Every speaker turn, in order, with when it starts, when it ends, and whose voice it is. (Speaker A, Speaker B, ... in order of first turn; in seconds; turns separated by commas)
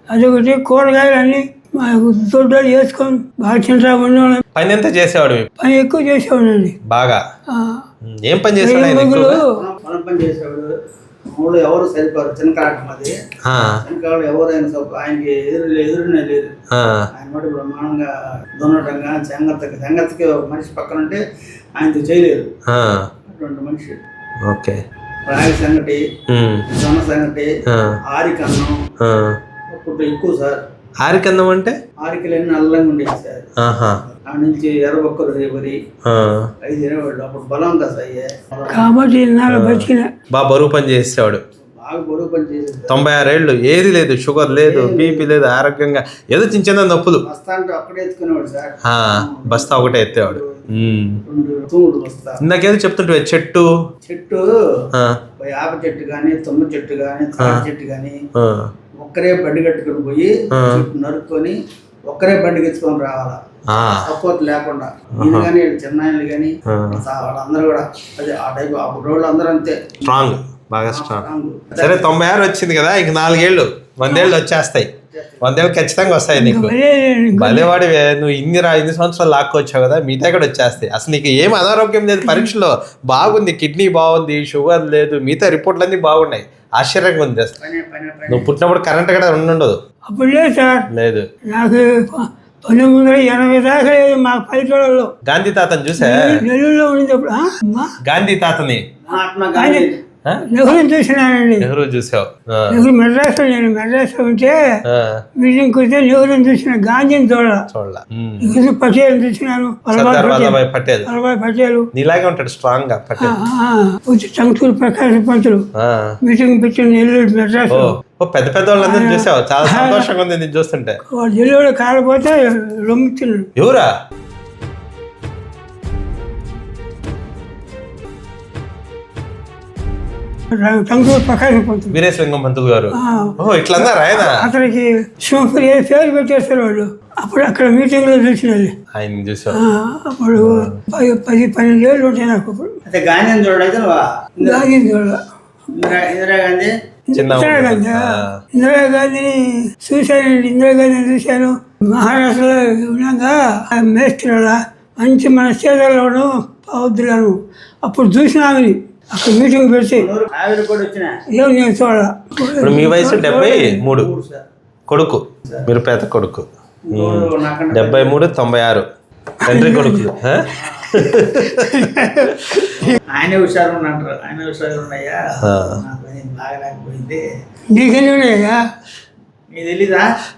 Speaker A: 0.1-4.4, Speaker B: 4.5-5.5, Speaker A: 5.6-6.8, Speaker B: 6.8-7.2, Speaker A: 7.5-7.8, Speaker B: 8.0-9.4, Speaker A: 8.6-9.5, Speaker C: 9.6-10.7, Speaker C: 11.3-13.2, Speaker B: 13.4-13.8, Speaker C: 13.8-16.5, Speaker B: 16.7-17.1, Speaker C: 17.1-21.2, Speaker C: 21.8-22.5, Speaker B: 22.7-23.1, Speaker C: 23.3-24.0, Speaker B: 24.4-24.8, Speaker C: 25.3-26.0, Speaker B: 26.3-26.7, Speaker C: 26.7-27.5, Speaker B: 27.7-28.0, Speaker C: 28.1-28.8, Speaker B: 29.0-29.4, Speaker C: 29.7-30.6, Speaker B: 31.0-31.8, Speaker C: 32.0-33.5, Speaker B: 33.6-34.0, Speaker C: 34.1-35.8, Speaker B: 36.1-36.5, Speaker C: 36.6-38.9, Speaker A: 38.7-40.1, Speaker B: 39.5-41.4, Speaker C: 41.8-43.0, Speaker B: 42.9-47.2, Speaker C: 44.6-45.3, Speaker C: 47.2-50.6, Speaker B: 48.9-51.2, Speaker C: 51.2-52.4, Speaker B: 52.4-53.7, Speaker C: 54.0-54.5, Speaker B: 54.9-55.2, Speaker C: 55.4-58.2, Speaker B: 57.4-57.7, Speaker B: 58.4-58.7, Speaker C: 59.0-61.6, Speaker B: 60.5-60.9, Speaker C: 62.1-63.4, Speaker B: 63.7-64.1, Speaker C: 64.0-70.1, Speaker B: 65.2-65.5, Speaker B: 66.7-67.0, Speaker B: 70.0-74.9, Speaker C: 70.9-72.1, Speaker C: 75.1-75.6, Speaker B: 75.4-76.7, Speaker A: 76.3-77.7, Speaker B: 77.4-87.5, Speaker A: 82.2-82.5, Speaker C: 87.6-88.5, Speaker B: 88.3-89.8, Speaker A: 90.1-90.9, Speaker B: 90.9-91.3, Speaker A: 91.5-95.1, Speaker B: 95.2-96.5, Speaker A: 96.0-97.9, Speaker B: 98.0-98.9, Speaker C: 99.1-100.0, Speaker A: 99.5-99.9, Speaker A: 100.4-101.7, Speaker B: 101.6-102.8, Speaker A: 102.7-104.6, Speaker B: 104.9-105.2, Speaker A: 105.4-107.7, Speaker B: 107.7-108.6, Speaker A: 108.4-111.9, Speaker B: 109.9-111.1, Speaker B: 112.0-113.4, Speaker A: 113.2-115.7, Speaker B: 115.8-116.2, Speaker A: 116.2-118.0, Speaker B: 117.7-121.0, Speaker A: 118.8-120.1, Speaker A: 121.1-123.5, Speaker B: 123.6-123.9, Speaker A: 130.5-132.0, Speaker B: 131.9-134.5, Speaker A: 132.9-138.7, Speaker B: 138.9-139.6, Speaker A: 139.5-142.7, Speaker B: 140.4-140.7, Speaker C: 142.9-144.7, Speaker A: 144.4-145.2, Speaker C: 145.7-146.7, Speaker A: 147.1-160.1, Speaker B: 147.1-148.3, Speaker C: 160.0-161.2, Speaker A: 161.3-163.7, Speaker B: 162.6-164.1, Speaker C: 163.2-164.4, Speaker B: 164.9-168.8, Speaker C: 166.9-168.2, Speaker A: 169.4-170.1, Speaker B: 169.4-172.3, Speaker C: 170.6-171.0, Speaker A: 171.4-173.0, Speaker C: 173.1-177.2, Speaker B: 175.4-175.8, Speaker A: 177.7-178.6, Speaker C: 179.5-180.1